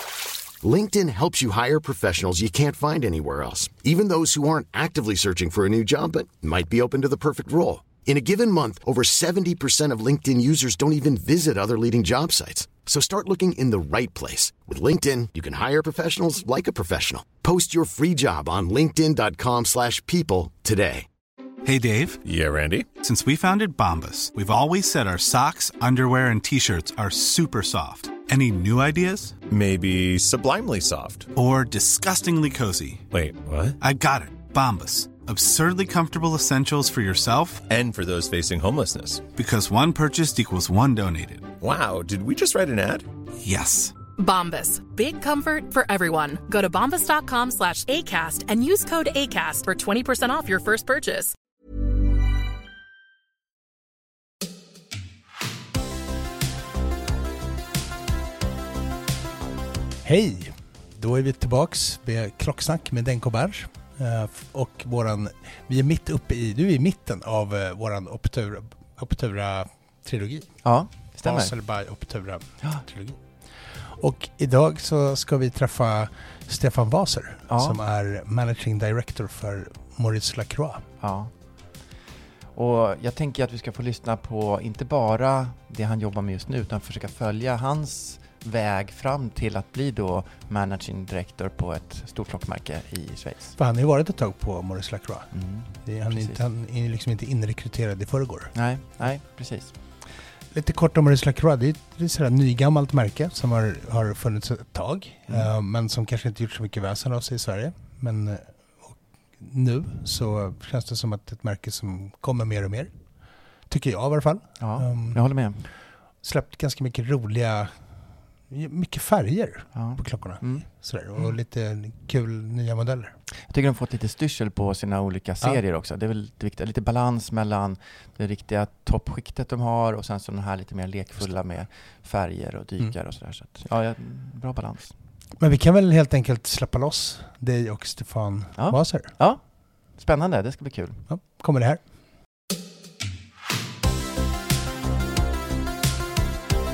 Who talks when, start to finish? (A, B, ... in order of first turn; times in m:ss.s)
0:00.6-0:21.1 A
0:21.6-0:22.2 B
0:22.2-0:22.9 C
0:23.0-0:29.4 B
0:29.5-0:31.3 C
0:31.3-0:33.0 B
0:33.1-0:33.8 C
0:33.8-0:37.6 B
0:37.7-0:39.3 C
0:39.3-0:41.5 B
0:41.6-0:43.1 C
0:43.4-0:44.0 B
0:44.2-0:51.3 D
1:00.0-1:20.9 E
1:10.6-1:12.9 F
1:17.5-1:17.8 F
1:21.0-1:22.0 F
1:22.5-1:33.6 F
1:33.6-1:39.8 E
1:35.3-1:36.4 F
1:38.5-1:40.2 F
1:40.5-2:03.2 E
1:45.3-1:45.5 F
1:54.6-1:55.7 F
1:59.7-2:01.3 F
2:03.3-2:15.0 F
2:11.1-2:11.7 E
2:15.4-2:19.2 E
2:18.5-2:21.2 F
2:21.1-2:21.9 E